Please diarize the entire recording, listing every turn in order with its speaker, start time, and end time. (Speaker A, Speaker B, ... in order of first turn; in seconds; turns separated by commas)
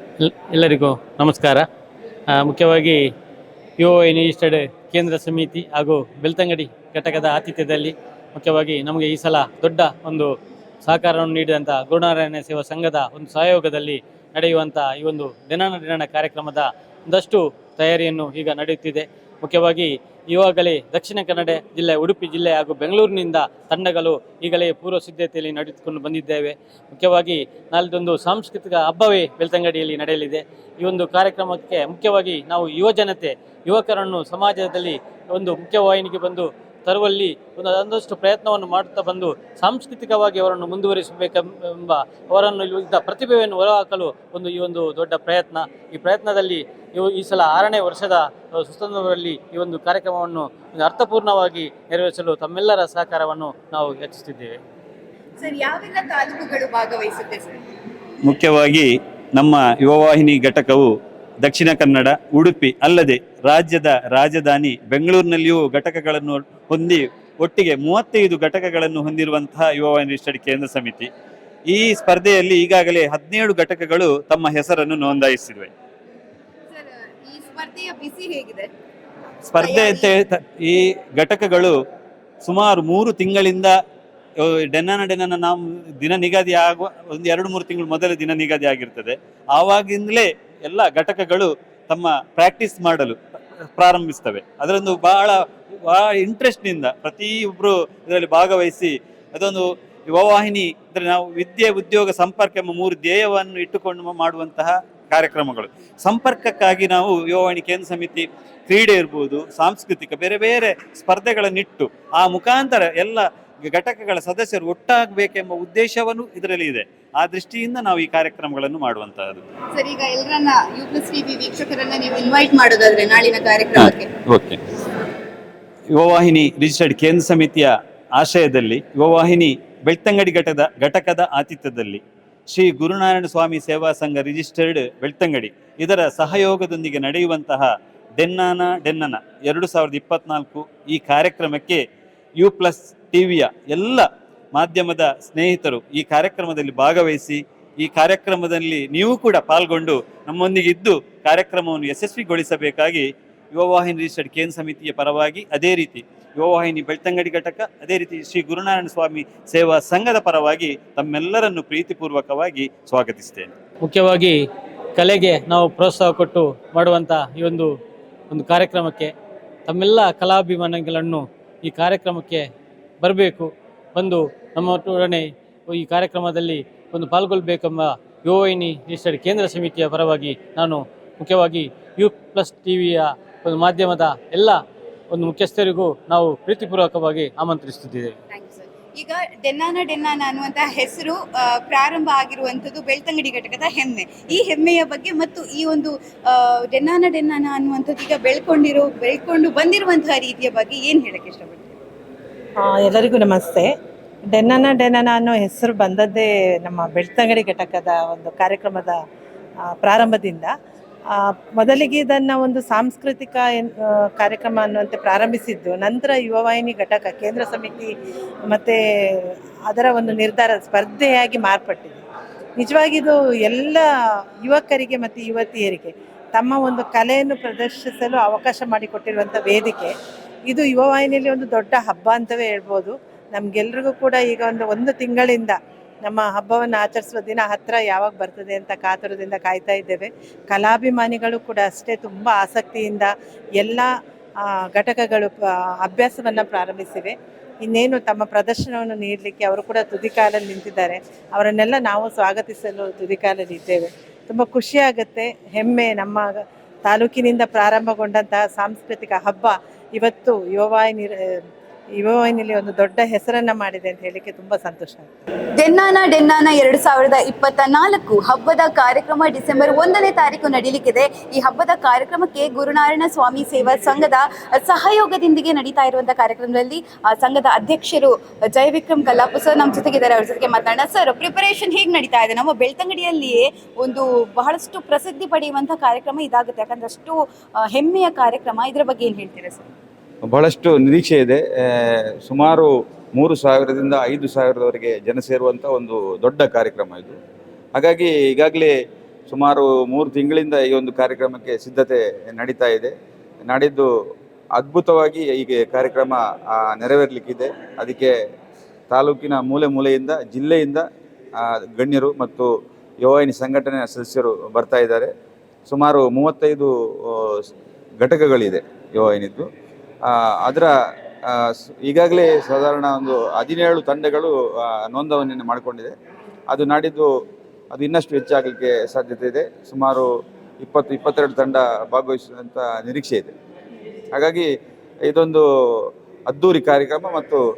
Speaker A: 0.2-1.6, Speaker A: 2.3-3.1, Speaker A: 3.8-10.3, Speaker A: 10.8-54.6, Speaker B: 55.4-57.6, Speaker C: 58.2-60.9, Speaker C: 61.4-71.1, Speaker C: 71.7-75.7, Speaker B: 76.7-78.7, Speaker C: 79.5-81.7, Speaker B: 79.5-80.1, Speaker C: 82.4-83.7, Speaker C: 84.4-93.2, Speaker C: 93.8-119.4, Speaker B: 119.7-124.1, Speaker C: 124.3-124.6, Speaker C: 125.9-141.8, Speaker C: 142.4-163.5, Speaker A: 163.8-167.7, Speaker A: 168.3-169.1, Speaker A: 169.7-172.5, Speaker A: 173.0-188.2, Speaker B: 188.3-201.8, Speaker D: 202.6-203.7, Speaker D: 204.3-209.0, Speaker D: 209.7-210.5, Speaker D: 211.2-217.9, Speaker D: 218.5-222.0, Speaker D: 222.6-223.8, Speaker D: 224.4-229.9, Speaker D: 230.5-243.9, Speaker D: 244.4-256.3, Speaker D: 256.9-261.4, Speaker D: 262.0-265.1, Speaker B: 265.6-289.7, Speaker E: 290.3-297.2, Speaker E: 297.8-298.7, Speaker E: 299.3-302.9, Speaker E: 303.4-303.9, Speaker E: 304.6-308.1, Speaker E: 308.9-310.9, Speaker E: 311.4-312.5, Speaker E: 313.0-315.1, Speaker E: 315.7-317.4, Speaker E: 318.0-319.5, Speaker E: 320.1-320.7, Speaker E: 321.2-325.9, Speaker E: 326.5-327.1, Speaker E: 327.7-330.1, Speaker E: 330.6-333.3, Speaker E: 334.1-334.5, Speaker E: 335.1-337.4